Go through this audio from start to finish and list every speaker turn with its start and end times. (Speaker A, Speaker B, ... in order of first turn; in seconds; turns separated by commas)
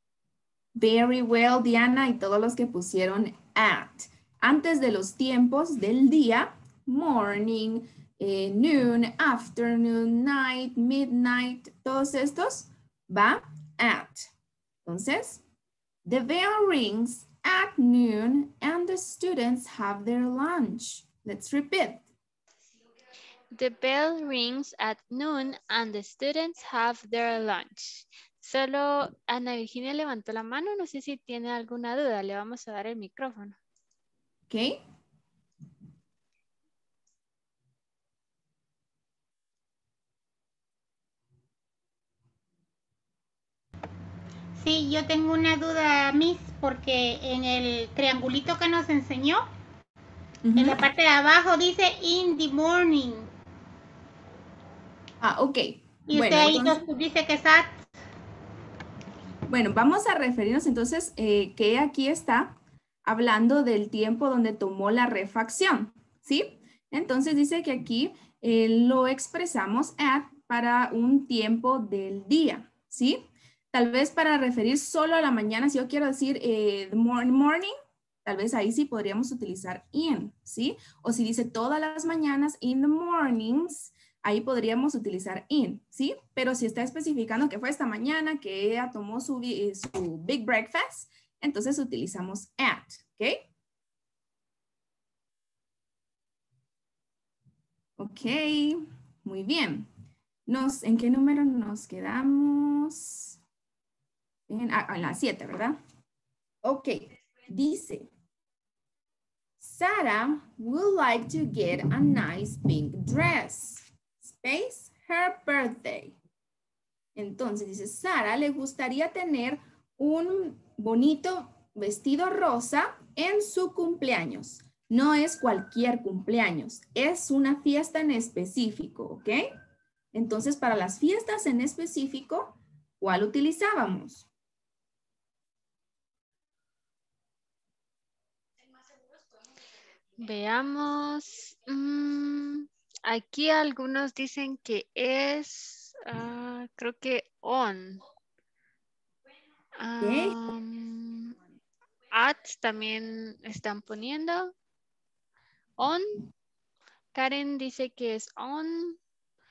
Speaker A: 0.8-14.3, Speaker A: 14.8-15.4, Speaker A: 16.0-22.0, Speaker B: 23.5-33.6, Speaker A: 34.5-34.8, Speaker C: 44.6-49.4, Speaker A: 50.4-50.8, Speaker C: 50.6-53.3, Speaker A: 55.2-56.8, Speaker C: 56.1-57.7, Speaker A: 59.5-62.5, Speaker A: 63.0-73.2, Speaker A: 73.7-77.7, Speaker A: 78.2-93.5, Speaker A: 98.0-99.9, Speaker A: 100.5-103.4, Speaker A: 104.5-105.8, Speaker A: 106.6-108.1, Speaker A: 109.6-116.2, Speaker A: 117.1-129.5, Speaker A: 130.1-134.3, Speaker B: 140.2-148.0, Speaker B: 149.8-151.3, Speaker A: 150.0-150.5, Speaker B: 152.1-154.5, Speaker B: 155.8-156.3, Speaker B: 157.1-159.0